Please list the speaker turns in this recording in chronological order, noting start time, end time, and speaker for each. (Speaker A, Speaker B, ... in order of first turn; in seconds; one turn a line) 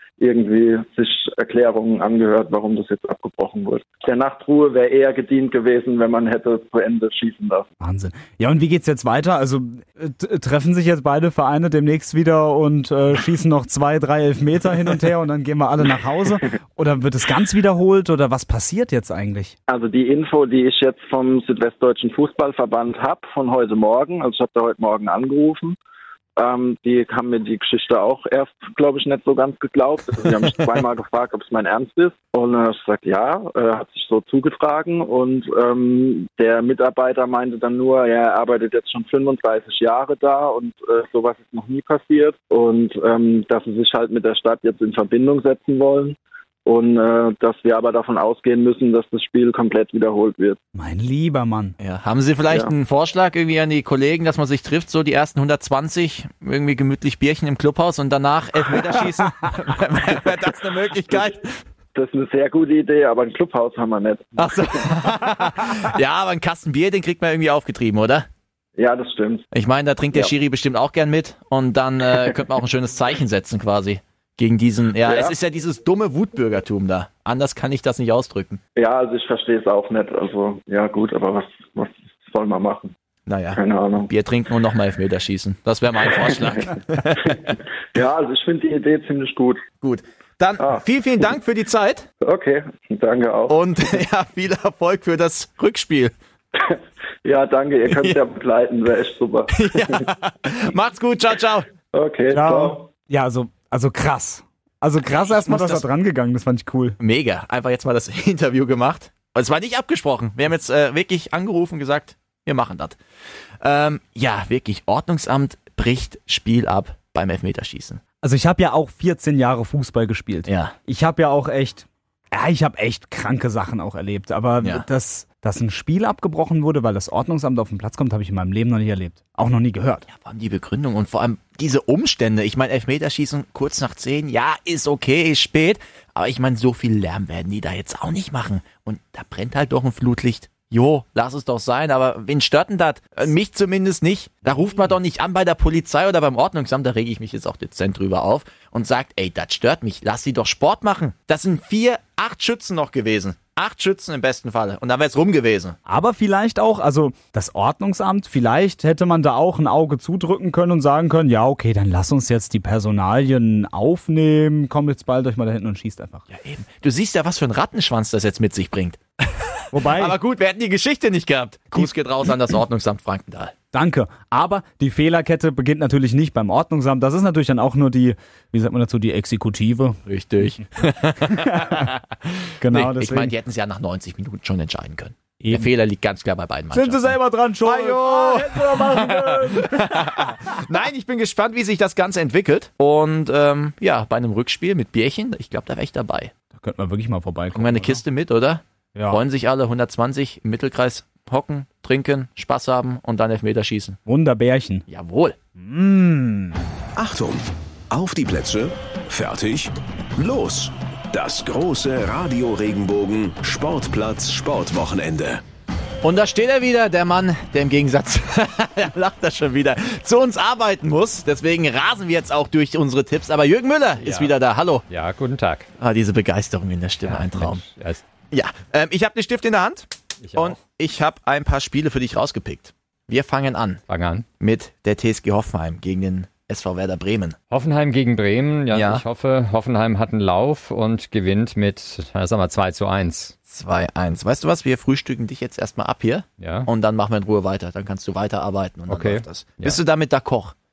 Speaker A: 0.2-7.7
Speaker B: 7.8-19.5
Speaker A: 19.7-25.8
Speaker A: 26.4-50.6
Speaker B: 50.7-51.7
Speaker C: 51.8-61.6
Speaker A: 61.9-64.8
Speaker C: 64.4-68.3
Speaker A: 68.8-69.5
Speaker C: 69.5-78.6
Speaker A: 75.0-75.3
Speaker A: 78.8-82.9
Speaker C: 83.3-87.5
Speaker A: 83.5-84.1
Speaker A: 87.3-89.6
Speaker C: 89.8-92.1
Speaker A: 92.2-93.5
Speaker C: 93.5-96.1
Speaker A: 96.5-100.0
Speaker C: 97.9-98.2
Speaker C: 99.5-101.7
Speaker A: 101.9-102.8
Speaker B: 102.3-107.0
Speaker C: 105.3-105.8
Speaker C: 107.0-113.0
Speaker C: 113.6-118.0
Speaker B: 118.2-130.1
Speaker C: 120.5-120.7
Speaker C: 130.1-155.8
Speaker B: 155.8-166.2
Speaker C: 166.3-173.5
Speaker B: 169.7-170.2
Speaker B: 173.7-180.0
Speaker C: 180.1-196.3
Speaker B: 181.3-181.8
Speaker B: 182.6-183.3
Speaker B: 185.4-185.7
Speaker B: 186.7-190.6
Speaker B: 196.6-198.0
Speaker C: 197.5-204.0
Speaker B: 198.9-199.2
Speaker B: 204.1-204.8
Speaker C: 204.9-205.4
Speaker B: 205.6-206.6
Speaker D: 206.9-215.4
Speaker C: 216.0-224.8
Speaker E: 224.0-224.3
Speaker E: 224.9-225.7
Speaker C: 225.8-227.6
Speaker E: 227.0-228.0
Speaker C: 228.3-233.8
Speaker E: 230.2-230.6
Speaker E: 233.9-234.2
Speaker C: 234.4-237.3
Speaker E: 237.5-243.3
Speaker C: 238.7-239.0
Speaker C: 243.5-250.5
Speaker E: 246.4-246.7
Speaker E: 248.9-249.8